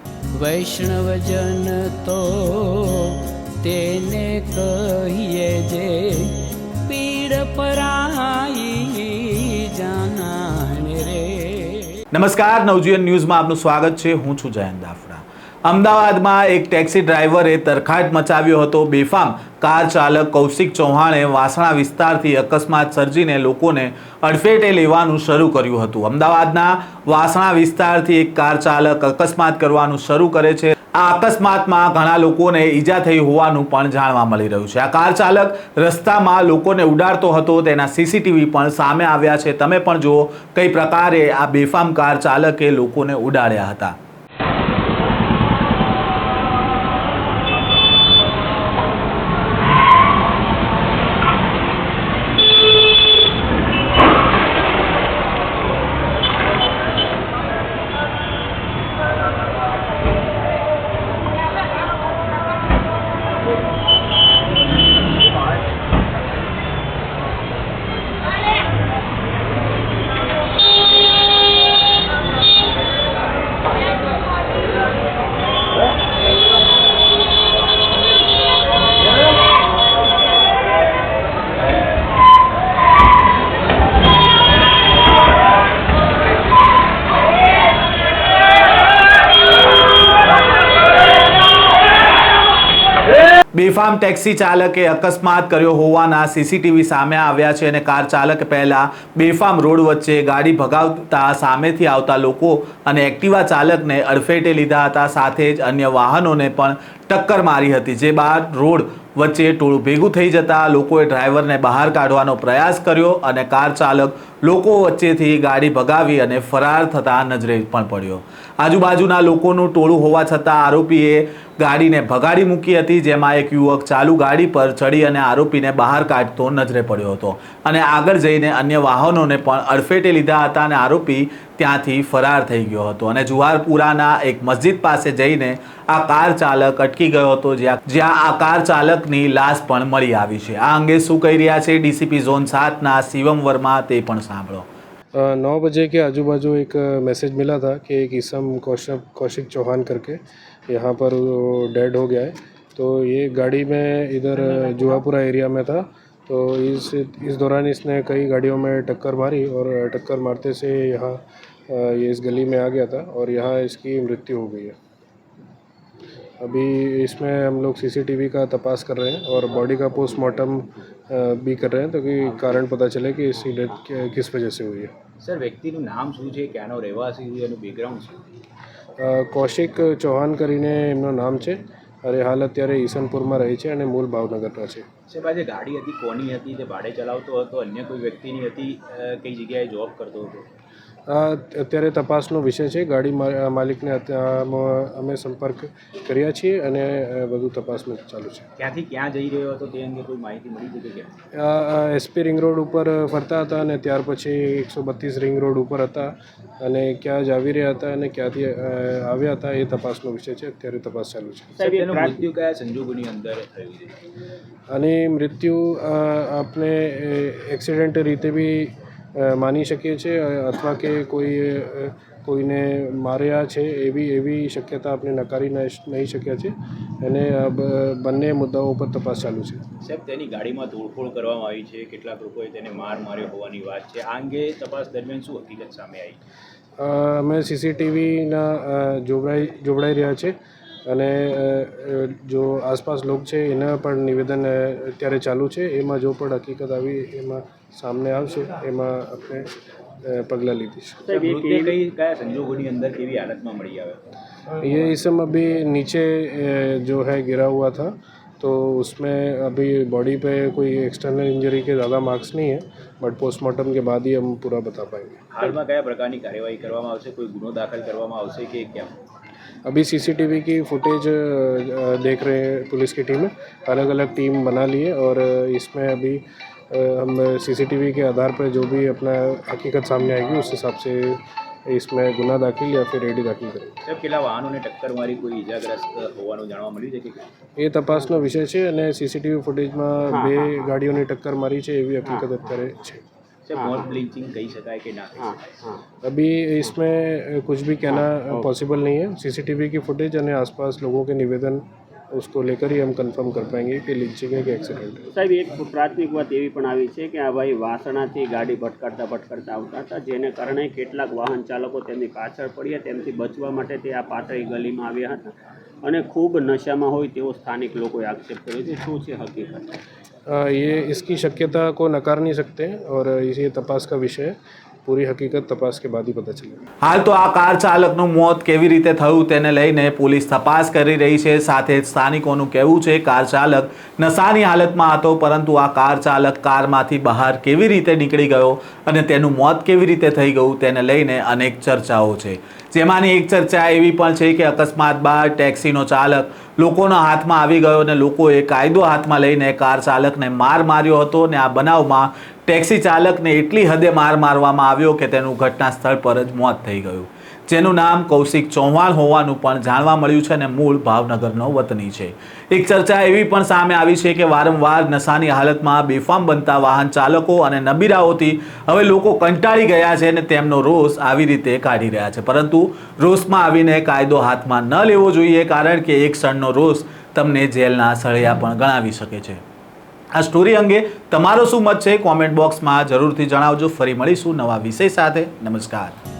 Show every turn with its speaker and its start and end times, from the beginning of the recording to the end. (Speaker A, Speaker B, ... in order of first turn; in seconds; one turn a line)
Speaker A: 0.3-12.0
Speaker B: 12.1-43.9
Speaker B: 93.5-144.7
Speaker C: 145.2-150.2
Speaker C: 150.7-164.7
Speaker C: 166.4-174.9
Speaker D: 175.2-178.4
Speaker C: 179.0-184.8
Speaker D: 185.1-190.4
Speaker C: 191.1-198.5
Speaker D: 198.6-201.1
Speaker C: 201.3-211.5
Speaker E: 211.6-212.2
Speaker D: 211.6-213.9
Speaker C: 214.7-229.6
Speaker D: 229.8-236.2
Speaker C: 236.8-240.3
Speaker C: 240.9-249.5
Speaker C: 250.0-251.0
Speaker E: 251.1-251.7
Speaker D: 251.1-254.0
Speaker C: 254.6-265.2
Speaker D: 265.3-268.9
Speaker C: 269.6-283.8
Speaker D: 283.8-287.2
Speaker C: 287.6-293.0
Speaker E: 290.1-290.5
Speaker E: 292.1-292.3
Speaker D: 293.4-295.5
Speaker E: 293.5-293.9
Speaker E: 295.2-295.8
Speaker C: 296.0-305.1
Speaker E: 297.9-298.5
Speaker E: 305.1-319.7
Speaker C: 320.3-326.6
Speaker B: 326.8-379.4
Speaker B: 380.1-385.9